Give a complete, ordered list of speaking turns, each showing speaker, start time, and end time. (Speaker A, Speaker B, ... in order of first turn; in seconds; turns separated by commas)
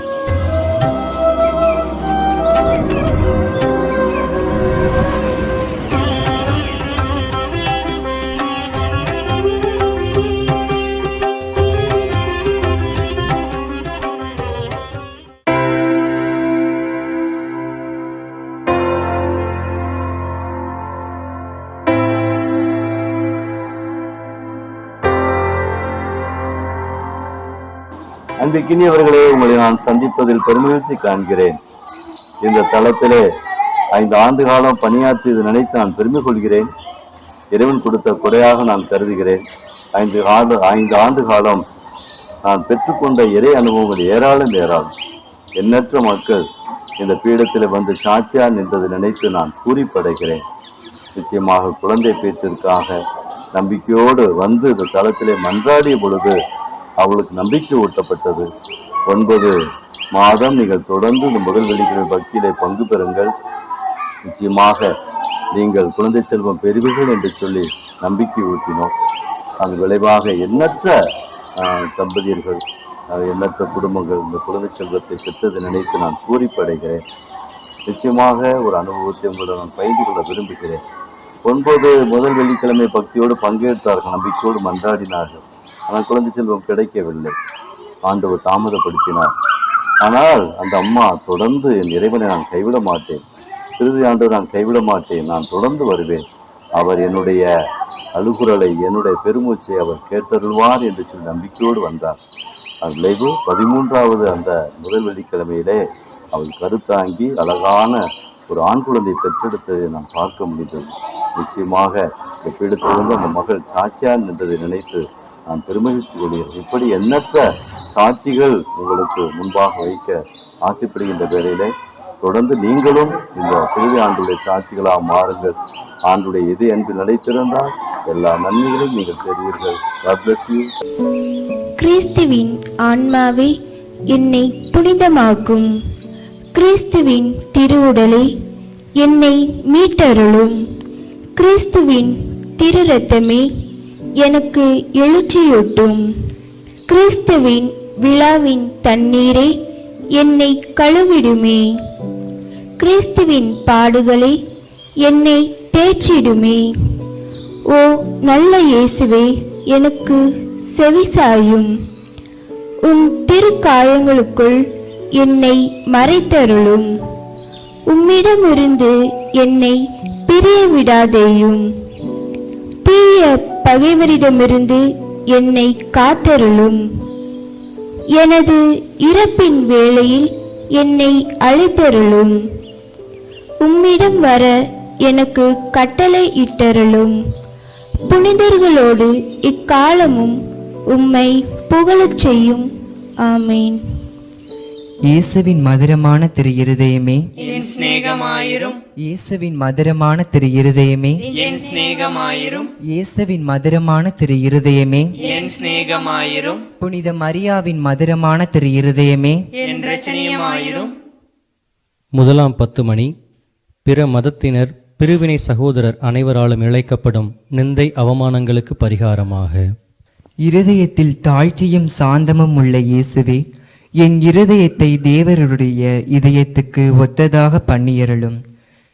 Speaker A: 28.4-31.6, Speaker A: 32.4-33.2, Speaker A: 34.0-36.7, Speaker A: 37.5-39.4, Speaker A: 40.0-41.6, Speaker A: 42.5-44.9, Speaker A: 45.6-46.4, Speaker A: 47.0-50.4, Speaker A: 51.2-53.0, Speaker A: 53.5-56.4, Speaker A: 57.0-58.5, Speaker A: 59.1-59.5, Speaker A: 60.1-63.3, Speaker A: 64.3-64.9, Speaker A: 65.5-68.9, Speaker A: 69.6-71.0, Speaker A: 71.6-72.6, Speaker A: 73.1-77.0, Speaker A: 77.9-80.8, Speaker A: 81.5-87.3, Speaker A: 88.1-89.3, Speaker A: 90.0-93.2, Speaker A: 93.8-96.2, Speaker A: 96.8-97.5, Speaker A: 98.2-102.2, Speaker A: 102.8-121.7, Speaker A: 122.2-125.6, Speaker A: 126.1-130.7, Speaker B: 131.8-133.5, Speaker B: 134.1-135.7, Speaker B: 136.5-138.3, Speaker B: 139.0-140.6, Speaker B: 141.4-143.5, Speaker B: 144.2-146.0, Speaker B: 146.9-149.5, Speaker B: 150.1-151.7, Speaker B: 152.8-154.4, Speaker B: 155.0-156.7, Speaker B: 157.7-161.7, Speaker B: 162.8-164.6, Speaker B: 165.2-166.9, Speaker B: 167.9-171.7, Speaker B: 172.8-176.8, Speaker B: 178.2-182.4, Speaker B: 183.6-187.2, Speaker B: 188.1-190.4, Speaker B: 190.9-192.7, Speaker B: 193.2-193.8, Speaker C: 195.1-197.2, Speaker D: 197.4-198.8, Speaker C: 199.0-201.3, Speaker D: 201.4-202.7, Speaker C: 202.8-205.3, Speaker D: 205.4-206.6, Speaker C: 206.8-209.4, Speaker D: 209.7-210.9, Speaker E: 212.2-213.1, Speaker E: 213.8-219.6, Speaker C: 220.4-223.4, Speaker C: 224.0-228.4